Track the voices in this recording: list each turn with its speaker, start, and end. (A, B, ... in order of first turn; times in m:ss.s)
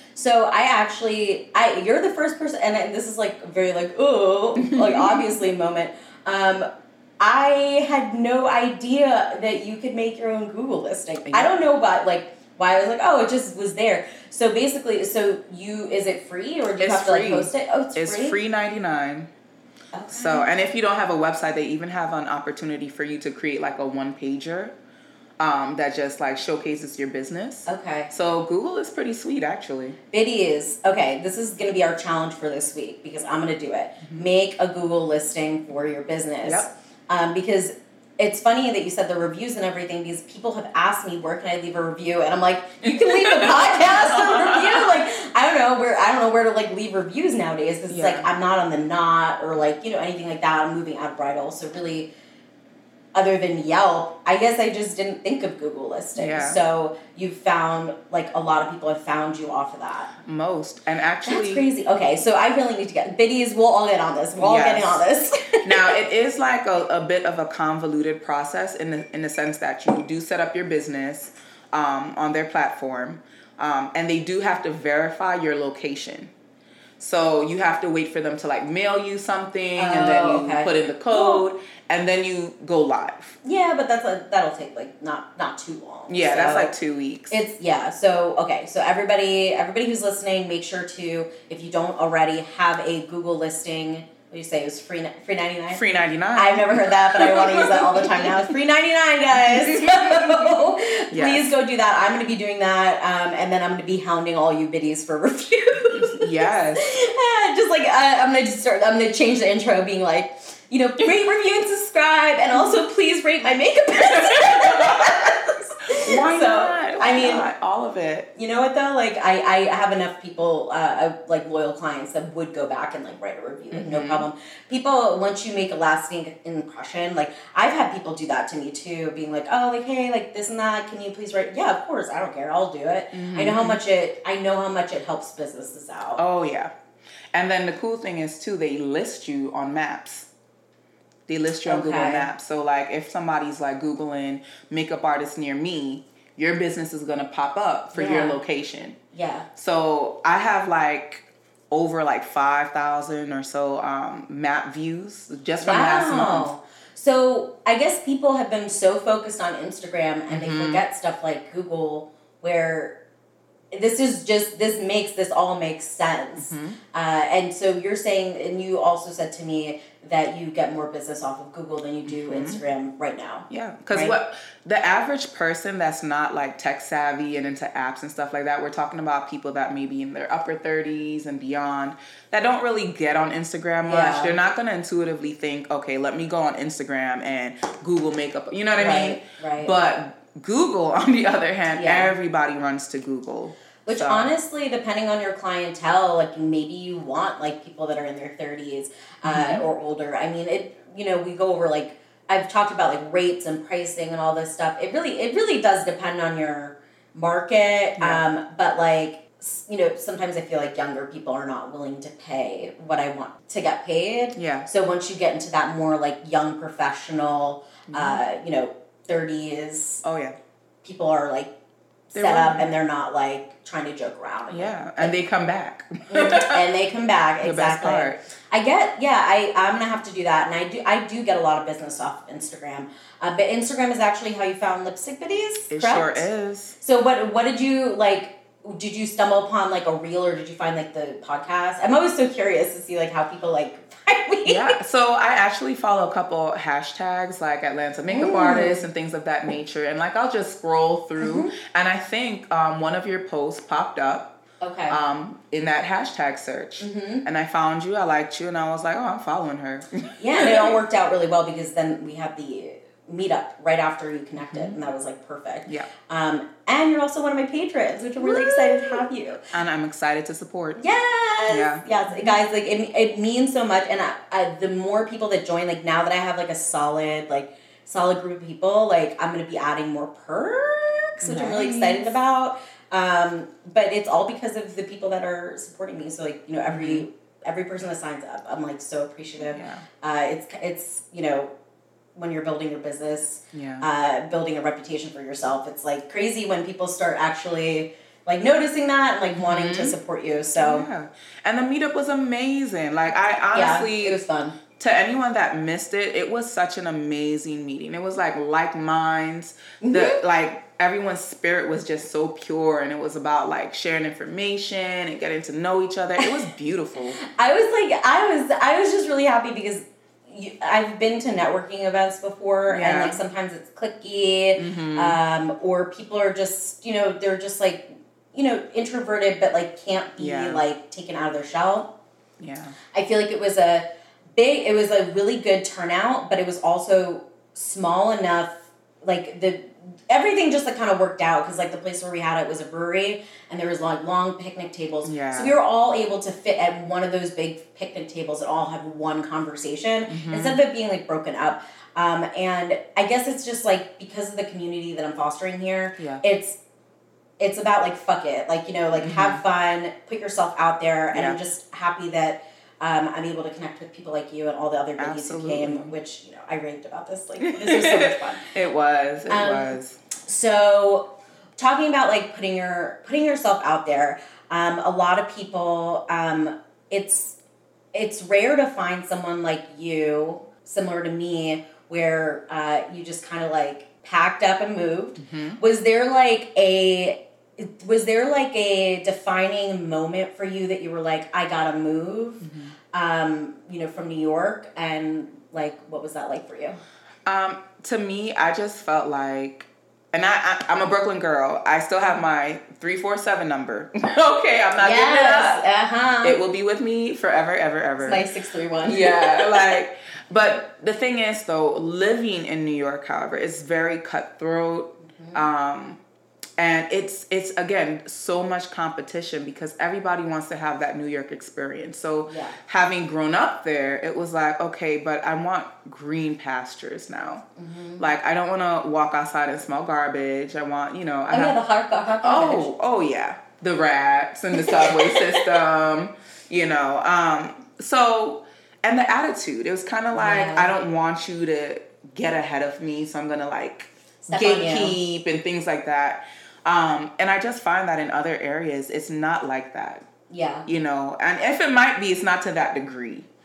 0:00.2-0:06.7 A
0:04.6-0:05.3 B
0:07.2-0:18.4 A
0:11.2-0:11.6 B
0:16.8-0:19.3 B
0:19.9-0:20.5 A
0:20.1-0:24.7 B
0:25.4-0:30.0 B
0:27.7-0:28.1 A
0:30.1-0:52.1 A
0:42.8-0:45.0 B
0:47.9-0:48.3 B
0:53.2-1:00.1 A
0:56.2-0:56.6 B
1:00.2-1:01.6 B
1:01.3-1:05.9 A
1:04.4-1:05.0 B
1:05.6-1:16.3 B
1:17.0-1:23.4 B
1:19.8-1:21.4 A
1:23.4-1:26.7 A
1:26.1-1:27.4 B
1:27.3-1:35.8 A
1:35.7-1:38.5 B
1:36.4-1:57.4 A
1:39.4-1:40.6 B
1:41.1-1:41.5 B
1:45.9-1:46.8 B
1:52.5-1:52.8 B
1:54.0-1:55.3 B
1:55.9-1:58.3 B
1:58.4-2:16.2 A
2:03.7-2:04.3 B
2:13.1-2:13.8 B
2:16.2-2:16.7 B
2:17.3-2:20.3 B
2:21.3-2:29.0 B
2:21.7-2:22.3 A
2:27.9-2:28.4 A
2:29.1-2:29.5 A
2:29.6-2:36.5 B
2:35.6-2:43.0 A
2:40.3-2:40.8 B
2:43.7-2:54.2 A
2:46.4-2:46.8 B
2:52.1-2:52.6 B
2:53.5-3:14.3 B
3:03.8-3:04.3 A
3:08.8-3:09.7 A
3:11.7-3:12.1 A
3:13.9-3:40.0 A
3:19.2-3:19.6 B
3:28.0-3:28.2 B
3:34.4-3:34.7 B
3:37.9-3:38.2 B
3:40.0-3:40.4 B
3:40.8-3:41.5 A
3:42.1-3:45.1 A
3:42.1-3:42.7 B
3:44.5-3:46.6 B
3:46.1-3:56.3 A
3:47.4-3:48.2 B
3:55.7-3:56.8 B
3:56.8-4:04.8 A
4:04.5-4:14.4 B
4:08.1-4:08.8 A
4:11.2-4:11.5 A
4:14.6-4:15.0 A
4:14.9-4:20.8 B
4:16.8-4:17.2 A
4:20.2-4:29.4 A
4:24.4-4:24.8 B
4:28.2-4:30.8 B
4:30.8-4:51.5 A
4:31.5-4:32.4 B
4:41.2-4:42.1 B
4:46.7-4:47.1 B
4:49.5-4:49.8 B
4:52.2-5:00.9 A
4:53.5-4:53.8 B
4:59.3-5:00.0 B
5:00.6-5:04.2 B
5:03.5-5:04.6 A
5:04.8-5:17.2 B
5:09.8-5:10.2 A
5:17.2-5:31.9 A
5:22.7-5:23.2 B
5:24.6-5:25.2 B
5:30.2-5:30.6 B
5:32.4-5:32.8 B
5:32.9-5:56.6 A
5:45.0-5:45.6 B
5:50.1-5:50.6 B
5:56.0-5:56.2 B
5:57.4-6:08.4 A
5:59.0-5:59.4 B
6:01.1-6:01.4 B
6:05.0-6:05.9 B
6:07.4-6:10.0 B
6:09.3-6:17.4 A
6:17.9-6:36.8 A
6:25.2-6:25.6 B
6:32.4-6:32.7 B
6:37.3-6:45.6 B
6:44.8-6:46.4 A
6:46.2-6:48.2 B
6:48.0-6:49.8 A
6:48.8-6:56.0 B
6:55.0-6:55.5 A
6:56.6-7:07.4 B
7:02.3-7:02.6 A
7:07.6-7:08.1 A
7:08.0-7:11.6 B
7:11.3-7:12.7 A
7:12.2-7:30.0 B
7:14.5-7:15.6 A
7:20.1-7:20.7 A
7:24.2-7:25.0 A
7:30.3-7:30.7 A
7:30.7-7:33.3 B